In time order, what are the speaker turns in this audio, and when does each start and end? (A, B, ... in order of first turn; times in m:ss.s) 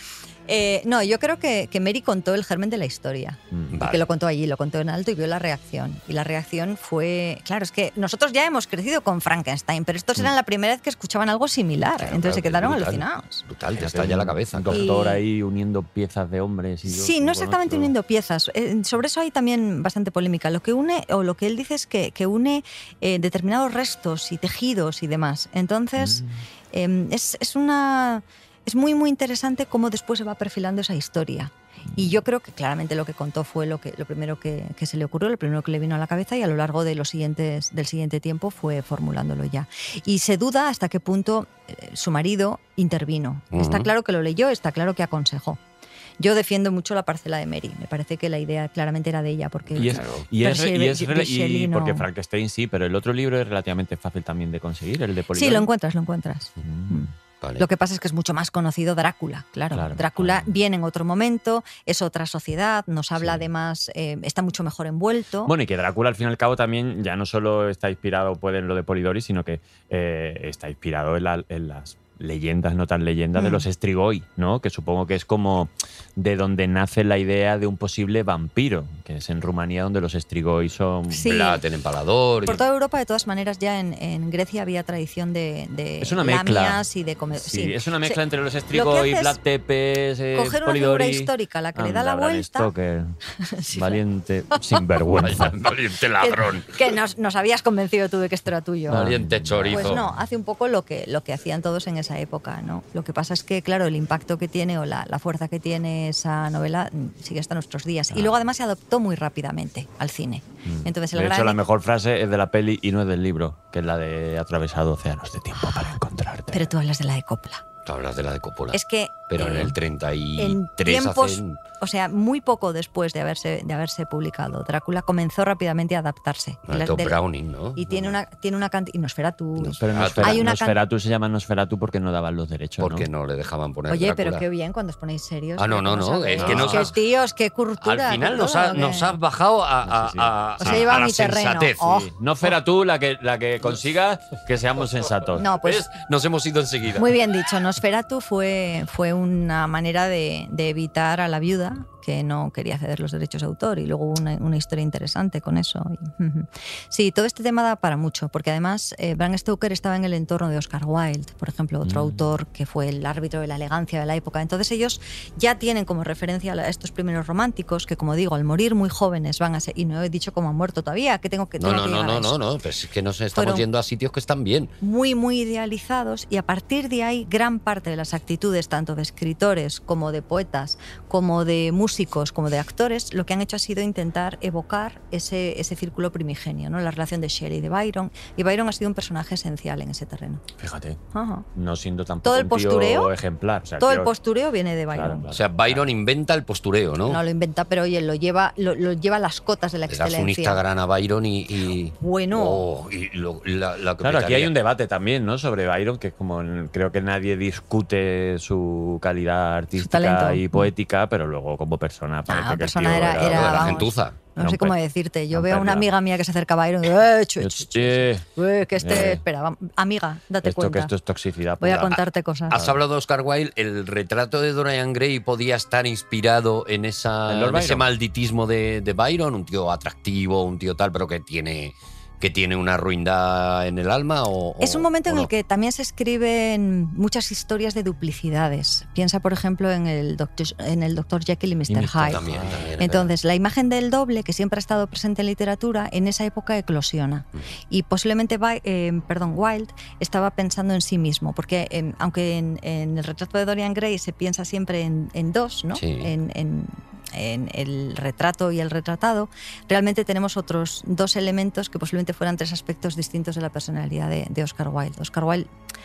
0:00.5-0:13.4 A
0:03.5-0:03.8 B
0:03.7-0:04.0 C
0:12.0-0:14.9 C
0:13.8-0:17.9 B
0:14.7-0:15.2 A
0:16.9-0:45.6 A
0:26.0-0:26.4 B
0:43.5-0:43.9 C
0:46.2-0:52.1 A
0:49.7-0:50.1 C
0:49.8-0:55.7 B
0:55.3-1:05.5 A
0:56.6-0:57.1 B
0:57.4-0:57.7 C
0:59.7-1:00.5 B
1:03.2-1:03.4 B
1:05.4-1:21.3 B
1:13.4-1:13.7 A
1:21.1-1:21.6 A
1:21.2-1:22.6 C
1:22.4-1:29.4 A
1:26.0-1:26.8 B
1:27.4-1:33.2 B
1:30.3-1:32.7 A
1:33.4-1:34.0 A
1:33.7-1:35.5 B
1:34.5-1:34.8 A
1:35.2-1:36.7 C
1:36.2-1:39.1 A
1:38.9-1:40.1 B
1:38.9-1:40.0 C
1:39.7-1:51.6 A
1:48.1-1:48.4 B
1:50.6-1:56.7 B
1:55.6-1:56.0 A
1:56.5-1:57.6 A
1:57.8-2:01.6 C
1:58.7-1:59.8 A
2:00.4-2:07.2 A
2:06.7-2:08.2 C
2:07.8-2:10.8 A
2:09.6-2:10.5 C
2:09.8-2:13.1 B
2:12.8-2:14.4 C
2:13.9-2:19.2 A
2:15.6-2:17.0 C
2:16.3-2:16.9 B
2:17.8-2:22.0 C
2:19.8-2:21.0 B
2:20.6-2:22.1 A
2:22.0-2:25.5 B
2:25.4-2:25.9 A
2:25.6-2:27.2 C
2:27.0-2:52.4 A
2:41.8-2:42.3 B
2:51.6-2:54.7 C
2:53.3-2:53.7 A
2:54.8-3:10.4 A
3:10.6-3:11.0 B
3:11.1-3:11.5 A
3:11.6-3:14.1 B
3:12.2-3:13.1 A
3:13.8-3:15.3 A
3:14.9-3:15.8 B
3:15.3-3:17.2 C
3:17.1-3:20.6 A
3:19.9-3:24.5 C
3:22.0-3:22.6 A
3:24.0-3:33.8 B
3:29.8-3:30.7 A
3:32.3-3:40.9 A
3:33.2-3:34.2 C
3:34.4-3:34.8 B
3:35.3-3:35.9 B
3:37.4-3:39.2 B
3:40.4-3:42.8 B
3:41.6-3:42.6 A
3:42.5-3:55.3 C
3:47.3-3:47.9 B
3:54.6-4:02.3 A
4:01.7-4:02.7 B
4:02.1-4:03.1 C
4:02.8-4:25.5 A
4:15.8-4:16.1 C